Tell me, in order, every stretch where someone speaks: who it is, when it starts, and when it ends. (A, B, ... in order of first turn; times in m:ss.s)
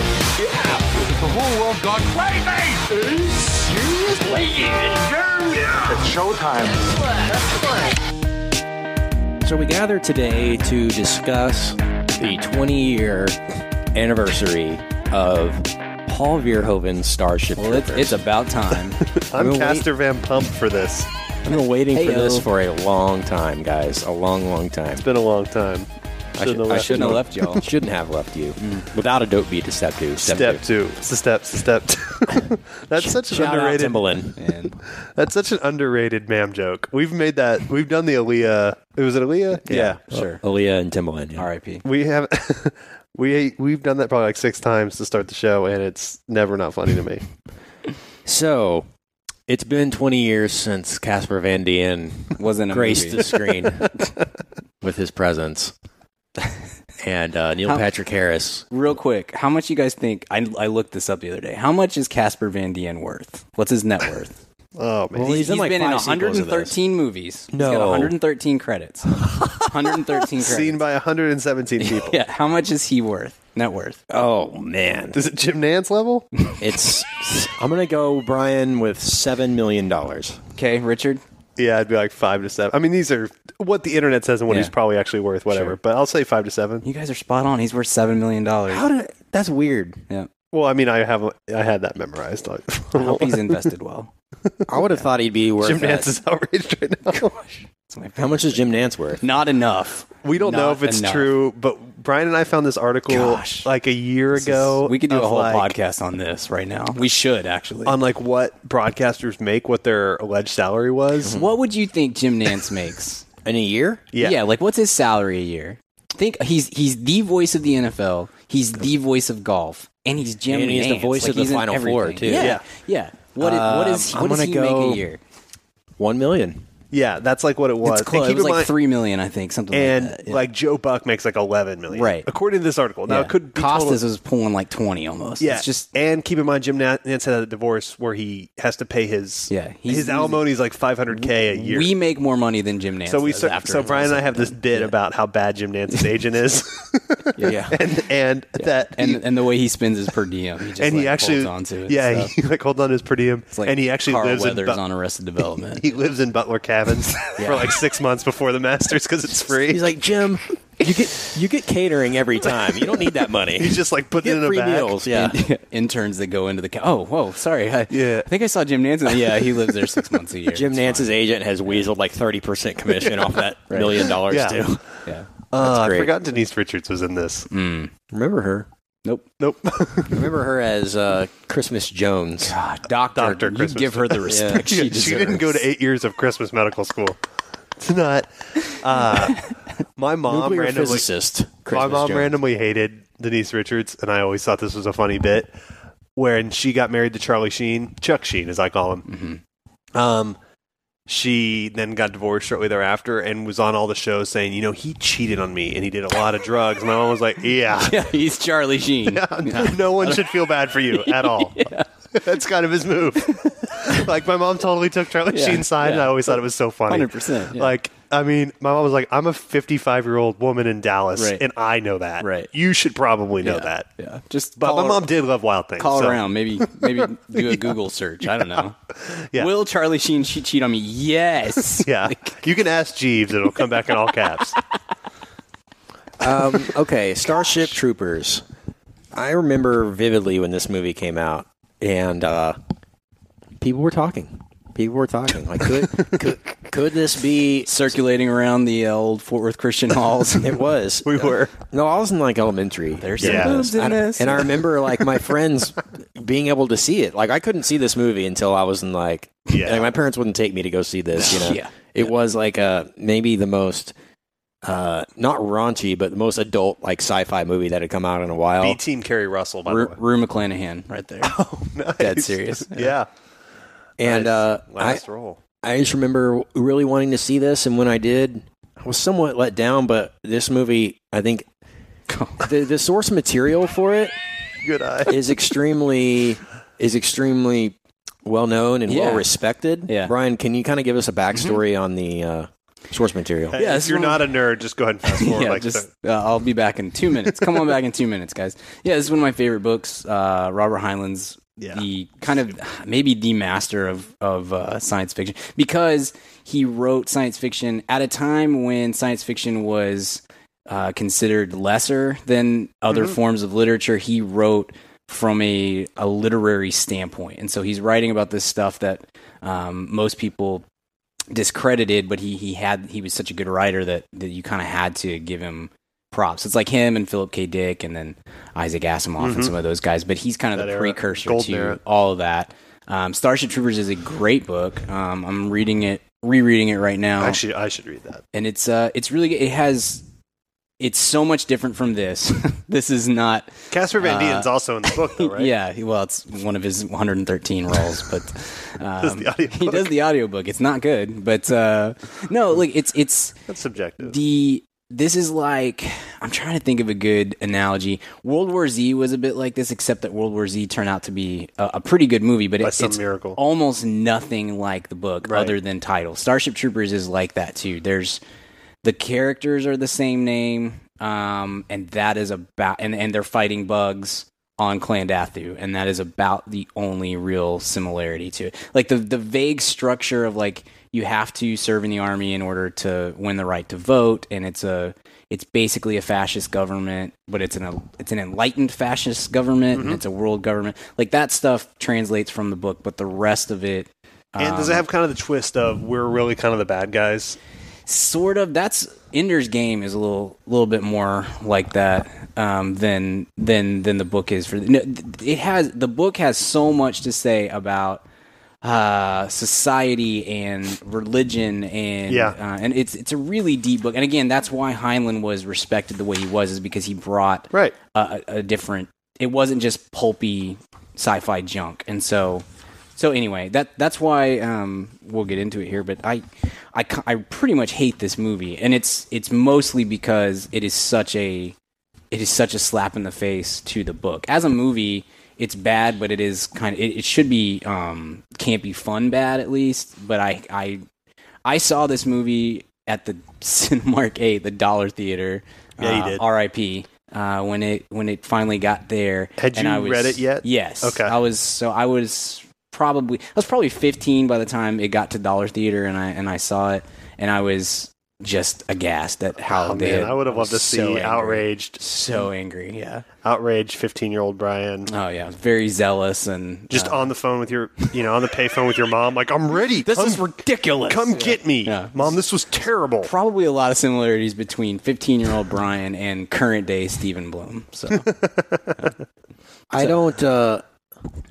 0:00.4-0:07.9 A
0:09.4-0:13.4 B
0:13.9-0:18.2 B
0:17.6-0:19.0 C
0:19.0-0:21.1 D
0:19.4-0:19.9 B
0:21.4-0:25.0 B
0:21.9-0:22.4 C
0:25.0-0:25.9 D
0:26.4-0:30.6 B
0:26.4-0:27.2 D
0:26.7-0:27.6 C
0:28.6-0:28.8 C
0:30.2-0:34.2 D
0:33.0-0:34.4 B
0:34.4-0:34.8 C
0:34.9-0:40.0 D
0:39.6-0:41.5 B
0:39.7-0:40.4 C
0:41.4-0:41.8 C
0:41.8-0:47.2 D
0:48.2-0:48.8 B
0:49.5-0:54.0 B
0:52.4-0:53.2 C
0:54.8-0:55.7 B
0:57.0-0:58.6 B
0:58.7-1:04.4 C
1:04.8-1:05.4 D
1:05.1-1:06.8 B
1:05.2-1:10.8 C
1:07.5-1:08.1 B
1:09.3-1:12.2 D
1:11.8-1:14.0 C
1:14.1-1:15.2 B
1:15.1-1:16.3 D
1:16.6-1:20.4 B
1:20.6-1:21.2 C
1:21.6-1:26.8 D
1:26.8-1:28.8 C
1:28.7-1:30.0 B
1:30.5-1:33.6 D
1:32.9-1:34.1 C
1:34.7-1:36.2 B
1:35.6-1:37.5 D
1:37.7-1:41.3 C
1:38.2-1:39.2 B
1:40.2-1:45.7 D
1:43.1-1:43.7 C
1:44.3-1:48.0 C
1:47.8-1:51.4 D
1:51.2-1:51.5 B
1:51.3-1:53.2 C
1:53.4-1:54.0 B
1:54.1-1:54.4 D
1:54.2-2:05.2 C
2:00.5-2:02.6 B
2:02.3-2:02.6 D
2:03.4-2:05.1 B
2:06.0-2:06.6 B
2:06.9-2:08.7 D
2:07.8-2:10.4 C
2:09.7-2:14.0 D
2:11.9-2:12.3 C
2:13.1-2:15.9 C
2:15.4-2:21.9 D
2:19.5-2:20.4 C
2:21.1-2:24.9 C
2:23.1-2:29.2 D
2:27.4-2:27.8 B
2:28.6-2:32.3 C
2:30.8-2:34.8 D
2:33.5-2:35.8 C
2:35.7-2:39.9 D
2:37.4-2:37.8 C
2:39.6-2:45.4 B
2:43.5-2:45.0 D
2:45.1-2:51.1 C
2:47.9-2:48.3 D
2:50.5-2:54.8 B
2:53.7-2:54.2 C
2:54.3-2:54.8 D
2:55.5-2:57.5 D
2:55.6-2:56.1 B
2:57.5-2:57.9 C
2:58.1-2:58.7 B
2:59.4-3:00.3 D
3:00.1-3:02.5 B
3:02.4-3:05.6 C
3:03.1-3:07.2 D
3:04.2-3:05.4 B
3:07.8-3:09.4 D
3:10.0-3:11.1 D
3:10.3-3:12.4 B
3:11.7-3:15.5 D
3:16.2-3:19.0 D
3:19.1-3:19.4 C
3:19.9-3:20.4 D
3:21.1-3:28.1 D
3:27.8-3:30.4 C
3:29.0-3:43.9 D
3:30.9-3:31.9 C
3:35.3-3:37.7 C
3:41.2-3:41.4 C
3:42.2-3:42.5 C
3:43.4-3:45.0 C
3:44.6-3:49.5 D
3:45.8-3:48.8 C
3:49.3-3:52.4 C
3:51.8-3:54.6 D
3:56.2-3:58.4 B
3:59.1-4:02.6 B
4:03.6-4:07.7 B
4:07.7-4:10.6 C
4:10.4-4:23.9 B
4:11.0-4:11.5 D
4:13.0-4:14.6 C
4:13.2-4:13.7 D
4:19.5-4:19.9 D
4:21.2-4:21.7 C
4:24.6-4:28.8 B
4:28.6-4:30.0 D
4:29.7-4:31.3 C
4:31.2-4:33.1 D
4:32.0-4:32.9 C
4:34.0-4:35.0 B
4:34.0-4:35.4 D
4:35.6-4:41.4 B
4:42.1-4:42.5 C
4:42.4-4:44.1 B
4:44.6-4:45.2 D
4:45.0-4:53.6 B
4:48.9-4:49.3 C
4:49.9-4:50.1 C
4:53.5-4:55.8 D
4:53.6-4:54.3 C
4:55.0-5:20.6 C
5:01.6-5:01.8 D
5:12.9-5:13.2 D
5:21.3-5:37.4 C
5:29.2-5:29.5 D
5:30.5-5:31.8 D
5:37.2-5:38.2 D
5:38.3-5:40.0 C
5:40.8-5:53.3 C
5:43.7-5:45.5 D
5:49.0-5:49.9 D
5:53.4-5:54.2 D
5:54.0-6:08.2 C
6:02.6-6:03.4 D
6:05.2-6:05.5 D
6:08.8-6:34.8 C
6:29.7-6:30.0 D
6:34.4-6:37.4 D
6:37.9-6:48.0 C
6:48.6-7:02.4 C
6:52.1-6:52.4 D
7:03.0-7:11.5 C
7:12.1-7:20.8 C
7:21.4-7:43.0 C
7:25.8-7:26.2 D
7:29.4-7:31.2 D
7:39.4-7:42.2 D
7:43.2-7:44.9 D
7:44.9-7:47.1 C
7:46.7-7:50.2 D
7:49.8-7:51.3 B
7:50.0-7:52.1 C
7:50.8-7:53.1 D
7:53.0-7:58.1 C
7:58.0-7:58.8 D
7:59.7-8:00.6 B